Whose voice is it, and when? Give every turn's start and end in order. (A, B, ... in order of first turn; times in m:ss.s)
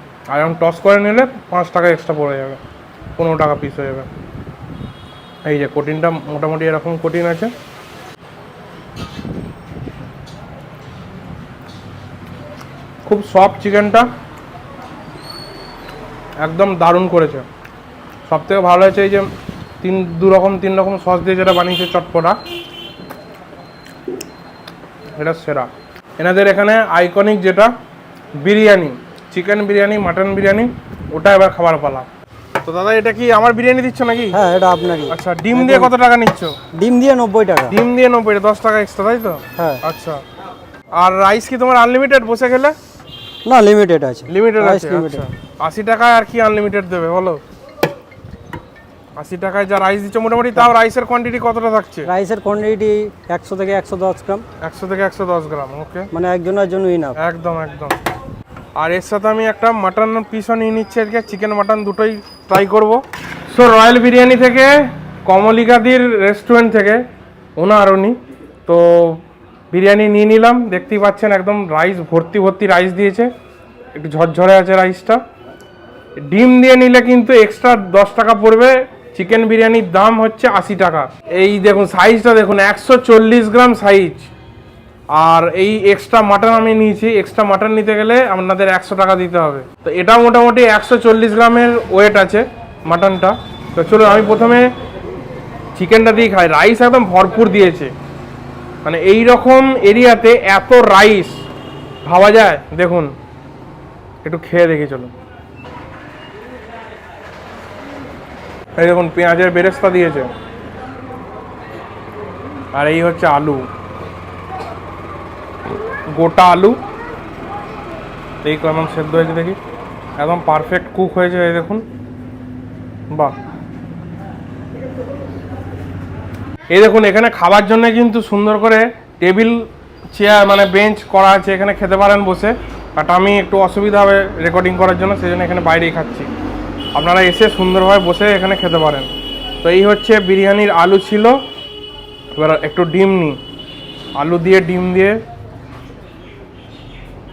0:00.3-0:02.6 A
0:03.2-0:04.1 A
0:05.4-0:07.5 A
0:13.0-0:14.1 A
0:16.4-0:17.5 A
0:18.3-0:19.3 A
0:19.8-0:22.4 A
0:25.2-0:27.7 A
0:28.4-0:32.1 A
0:32.6-0:34.4 A
0:34.3-0:36.0 B
0:35.1-0:36.6 A
0:36.8-0:37.8 B
0:37.7-0:40.2 A
0:39.6-0:39.8 B
0:41.0-0:42.8 A
0:43.4-0:45.3 B
0:44.3-0:47.4 A
0:49.2-0:52.1 A
0:52.0-0:54.4 B
0:54.6-0:56.1 A
0:56.1-0:57.2 B
0:57.2-0:58.0 A
0:58.8-1:07.0 A
1:07.6-1:13.3 A
1:14.0-1:15.2 A
1:16.3-1:24.3 A
1:25.1-1:34.7 A
1:35.8-1:37.9 A
1:38.8-1:41.4 A
1:42.0-1:43.1 A
1:44.2-1:45.1 A
1:48.8-1:50.3 A
1:52.7-1:53.7 A
1:56.1-1:56.8 A
1:58.4-1:59.6 A
2:00.2-2:01.9 A
2:06.7-2:09.6 A
2:10.1-2:16.3 A
2:16.9-2:19.1 A
2:19.6-2:21.4 A
2:22.4-2:23.4 A
2:24.2-2:25.2 A